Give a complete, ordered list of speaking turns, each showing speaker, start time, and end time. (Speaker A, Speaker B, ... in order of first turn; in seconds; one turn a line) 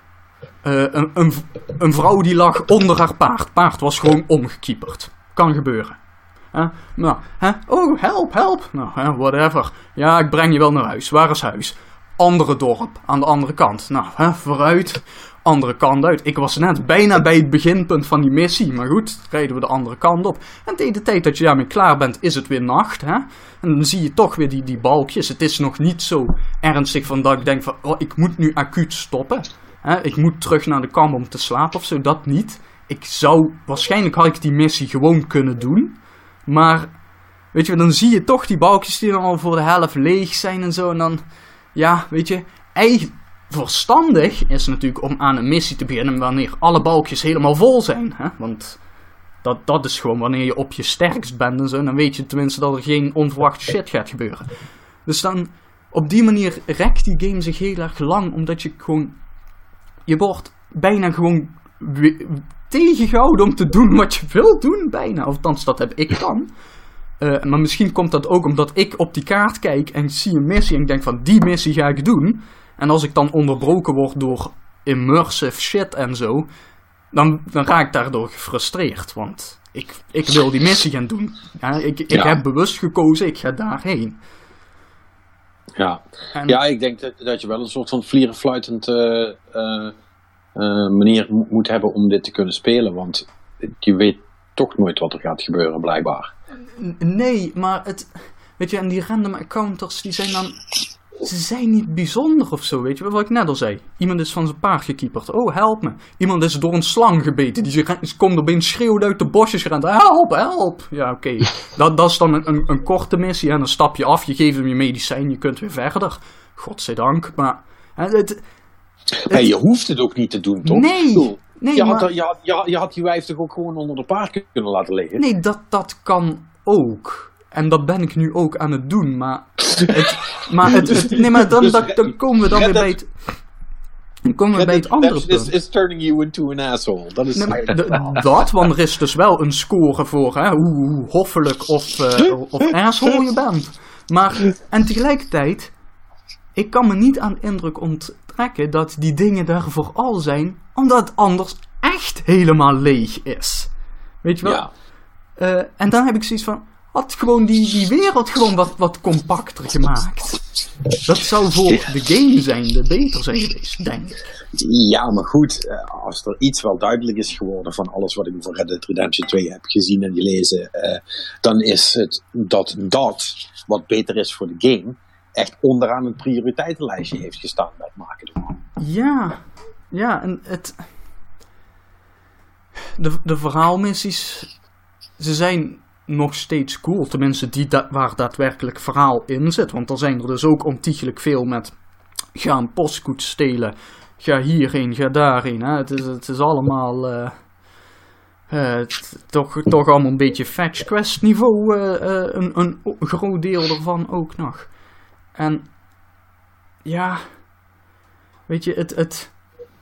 Speaker A: 0.6-6.0
Speaker A: 6.5-36.9
Speaker A: 37.5-41.2
Speaker A: 41.7-48.8
Speaker A: 49.4-54.5
Speaker A: 55.0-59.2
Speaker A: 60.0-66.5
Speaker A: 67.2-76.5
Speaker A: 77.1-84.2
Speaker B: 82.1-82.4
Speaker B: 85.8-89.9
Speaker B: 90.5-96.3
Speaker A: 96.8-100.6
Speaker A: 101.2-118.4
Speaker B: 119.1-125.2
Speaker A: 120.6-122.1
Speaker A: 125.2-133.3
Speaker B: 129.8-130.1
Speaker B: 130.7-131.9
Speaker B: 132.5-132.9
Speaker A: 134.2-135.5
Speaker B: 134.5-138.2
Speaker A: 137.3-145.7
Speaker A: 146.5-153.7
Speaker A: 154.2-154.6
Speaker B: 154.4-154.7
Speaker A: 155.4-164.3
Speaker B: 164.5-178.6
Speaker A: 178.8-180.9
Speaker A: 183.0-184.5
Speaker A: 185.2-191.8
Speaker A: 192.3-197.5
Speaker A: 198.5-204.7
Speaker A: 205.3-205.7
Speaker A: 206.8-207.4
Speaker A: 208.5-209.3